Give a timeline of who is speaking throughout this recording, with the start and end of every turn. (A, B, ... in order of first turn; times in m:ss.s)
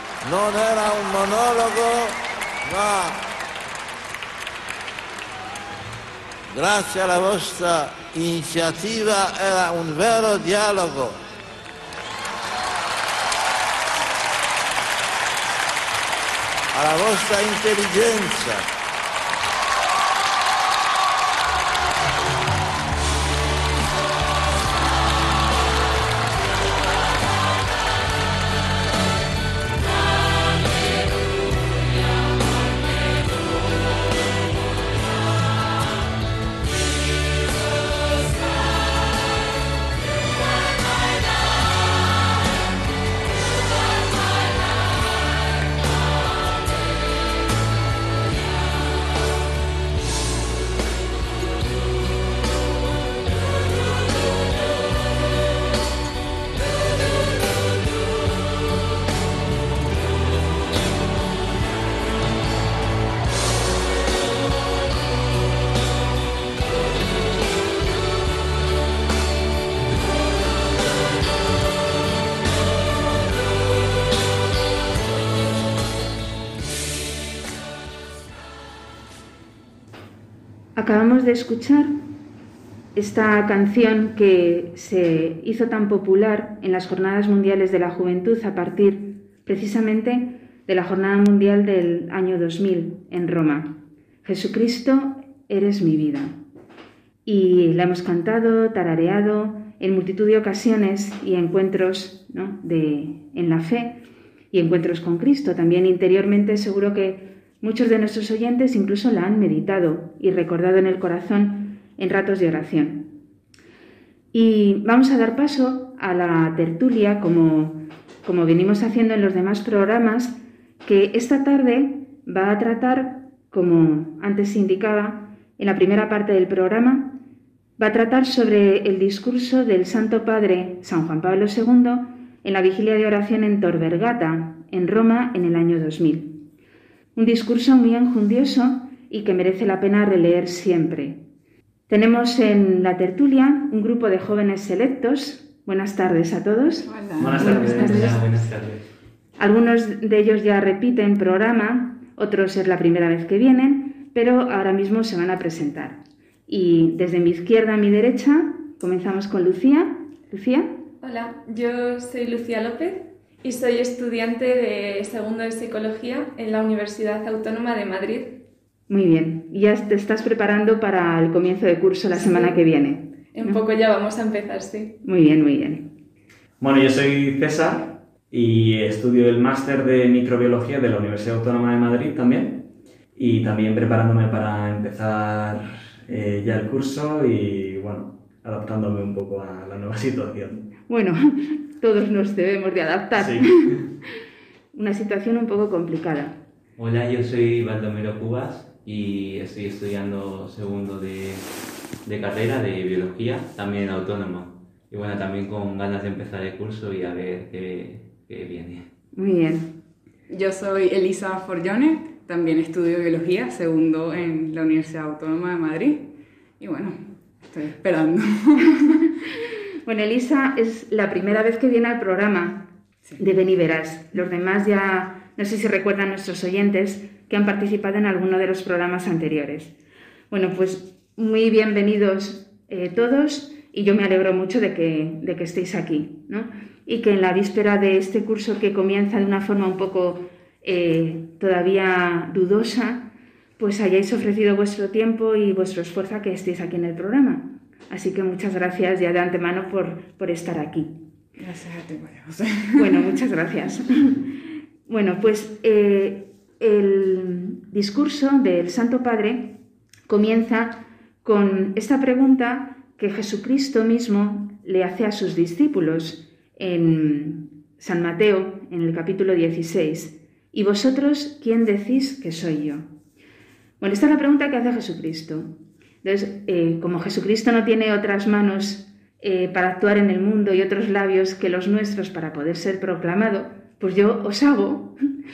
0:00.2-0:03.2 A
0:06.5-0:11.2 A
0:16.7-0:18.6 A
1:20.8-1:22.0 B
1:22.9-1:36.4 B
1:37.2-1:53.1 B
1:54.3-2:07.2 B
2:07.8-2:16.4 B
2:17.1-2:21.2 B
2:21.9-2:26.9 B
2:26.8-2:28.2 C
2:27.2-2:28.0 D
2:27.4-2:28.1 B
2:27.4-2:28.9 E
2:29.4-2:40.7 B
2:41.0-2:48.4 F
2:48.9-2:53.6 B
2:52.1-2:52.6 F
2:53.3-2:55.0 F
2:55.0-2:55.9 B
2:56.6-3:10.6 D
3:10.9-3:13.8 B
3:13.2-3:13.9 D
3:14.7-3:16.4 B
3:16.8-3:21.4 E
3:22.0-3:28.9 E
3:29.1-3:29.7 B
3:30.3-3:36.1 C
3:36.6-3:39.1 C
3:39.8-3:49.7 B
3:50.3-4:11.0 B
4:11.4-4:13.2 C
4:12.8-4:14.3 B
4:14.9-4:19.6 B
4:20.1-4:32.9 B
4:33.8-4:44.9 B